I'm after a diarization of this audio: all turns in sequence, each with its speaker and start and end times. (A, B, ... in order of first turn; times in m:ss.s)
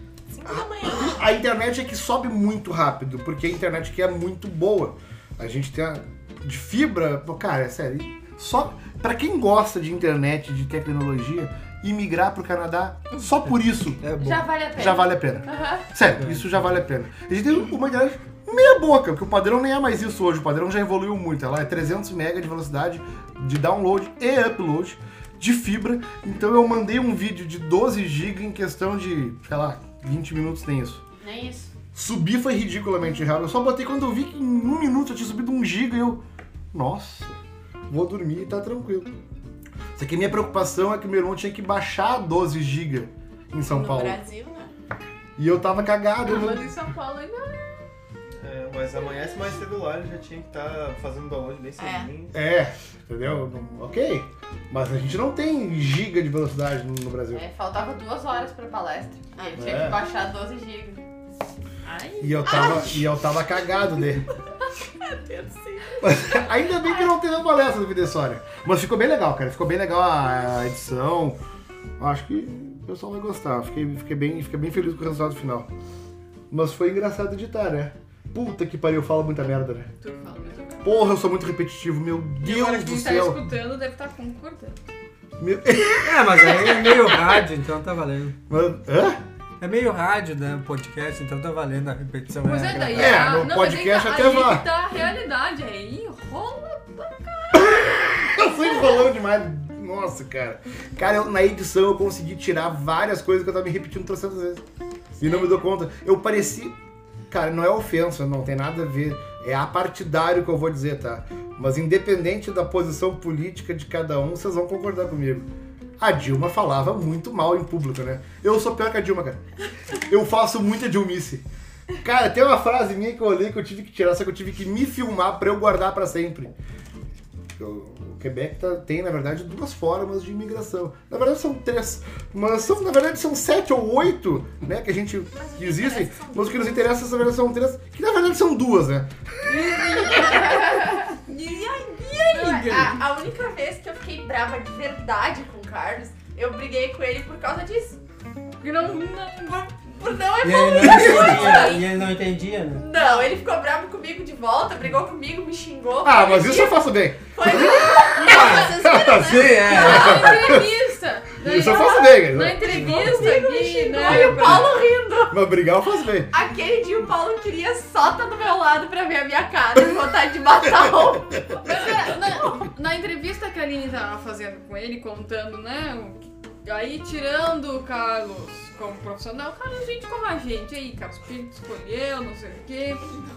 0:00.3-0:01.2 A
0:00.4-0:14.1 B
0:14.0-0:14.5 C
0:14.2-0:15.9 D
0:14.7-0:31.0 B
0:16.2-0:16.6 C
0:31.2-0:31.7 D
0:31.9-0:37.4 B
0:37.9-0:39.1 B
0:40.0-0:44.2 B
0:43.6-0:44.7 A
0:45.4-0:46.7 B
0:46.3-0:47.8 E
0:48.4-0:52.4 F
0:51.8-0:52.1 A
0:52.3-0:57.4 B
0:57.3-1:01.0 D
0:59.3-1:00.0 A
0:59.6-1:00.0 B
1:01.8-1:03.0 D
1:02.2-1:04.2 B
1:02.5-1:02.9 A
1:05.3-1:05.7 A
1:05.3-1:06.0 D
1:06.0-1:11.4 B
1:12.0-1:15.7 B
1:16.5-1:19.9 B
1:20.0-1:21.0 E
1:20.8-1:23.4 B
1:22.4-1:24.8 E
1:25.4-1:27.4 B
1:26.0-1:28.4 C
1:28.5-1:29.2 B
1:29.6-1:33.4 C
1:32.4-1:38.0 E
1:32.9-1:34.7 B
1:37.6-1:44.6 B
1:45.2-1:46.7 B
1:47.3-1:55.5 B
1:56.0-1:59.4 B
2:00.0-2:01.4 B
2:02.0-2:06.5 B
2:07.6-2:20.0 B
2:15.7-2:16.6 A
2:16.0-2:16.4 D
2:19.5-2:23.0 E
2:19.8-2:21.2 D
2:22.3-2:28.0 D
2:28.6-2:29.8 E
2:30.0-2:32.0 D
2:30.4-2:32.8 C
2:30.8-2:31.3 B
2:32.8-2:36.8 D
2:36.0-2:40.7 B
2:37.3-2:38.7 D
2:37.7-2:39.9 A
2:38.2-2:40.5 C
2:39.7-2:44.8 E
2:41.4-2:43.3 B
2:42.7-2:43.2 C
2:43.0-2:45.4 D
2:44.0-2:46.3 B
2:46.3-2:51.9 D
2:51.6-3:03.2 E